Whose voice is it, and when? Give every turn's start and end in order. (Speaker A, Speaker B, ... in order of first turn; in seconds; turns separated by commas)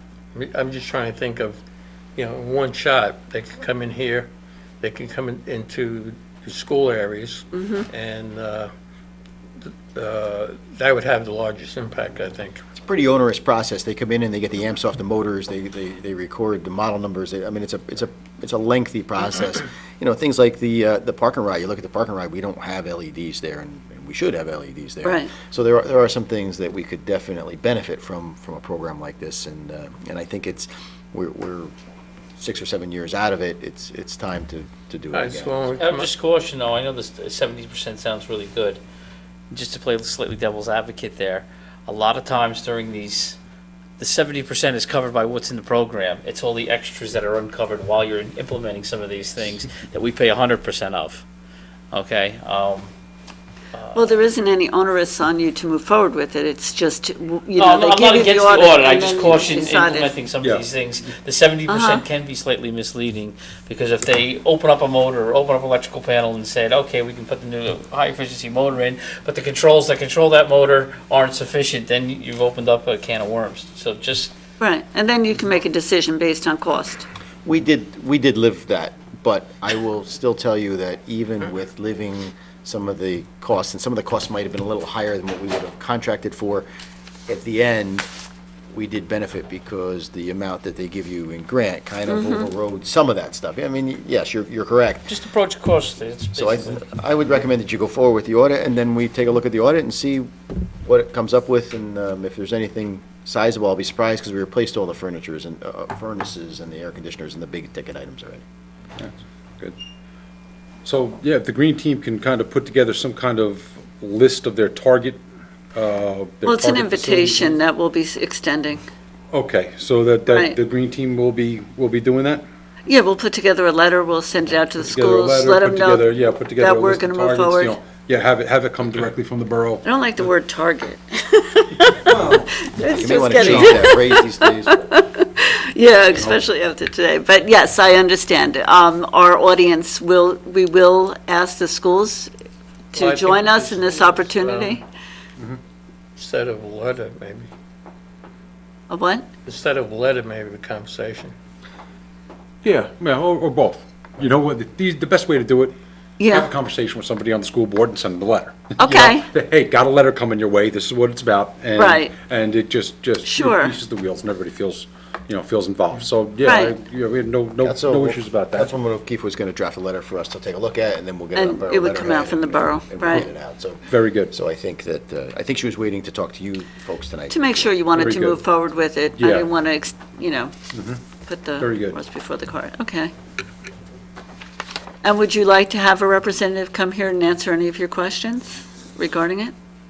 Speaker A: 0.3-1.6, Speaker A: 2.1-4.3, Speaker A: 4.8-8.7, Speaker B: 7.5-7.9, Speaker A: 9.6-12.6, Speaker C: 12.8-31.7, Speaker B: 25.0-25.3, Speaker C: 32.4-35.7, Speaker A: 35.1-36.1, Speaker D: 35.8-38.8, Speaker D: 39.5-43.4, Speaker D: 44.0-51.2, Speaker D: 51.9-52.9, Speaker D: 53.7-54.1, Speaker B: 53.9-60.1, Speaker D: 57.6-74.3, Speaker E: 60.4-60.7, Speaker B: 61.7-62.0, Speaker B: 74.6-77.0, Speaker C: 77.4-86.7, Speaker C: 87.3-88.1, Speaker C: 88.7-95.1, Speaker B: 92.1-92.5, Speaker D: 95.1-96.8, Speaker C: 96.3-100.3, Speaker C: 100.8-108.4, Speaker E: 109.0-109.8, Speaker E: 110.8-115.2, Speaker E: 115.7-117.6, Speaker B: 116.4-118.8, Speaker E: 119.3-122.4, Speaker B: 120.3-120.5, Speaker B: 122.9-127.8, Speaker E: 124.8-129.8, Speaker B: 129.8-142.3, Speaker E: 132.1-132.5, Speaker C: 132.9-134.8, Speaker E: 133.4-133.8, Speaker B: 142.9-144.8, Speaker A: 142.9-144.8, Speaker A: 146.2-147.5, Speaker B: 148.9-149.3, Speaker A: 149.4-151.3, Speaker E: 152.6-155.7, Speaker B: 156.2-156.5, Speaker E: 156.3-168.7, Speaker B: 158.8-159.3, Speaker B: 161.8-162.1, Speaker B: 163.2-163.7, Speaker B: 166.4-166.7, Speaker C: 167.6-177.7, Speaker B: 171.3-173.2, Speaker E: 173.9-174.3, Speaker B: 177.3-180.5, Speaker E: 177.9-178.4, Speaker E: 179.2-179.5, Speaker E: 180.7-181.0, Speaker B: 181.2-183.1, Speaker E: 181.6-182.0, Speaker B: 185.0-189.5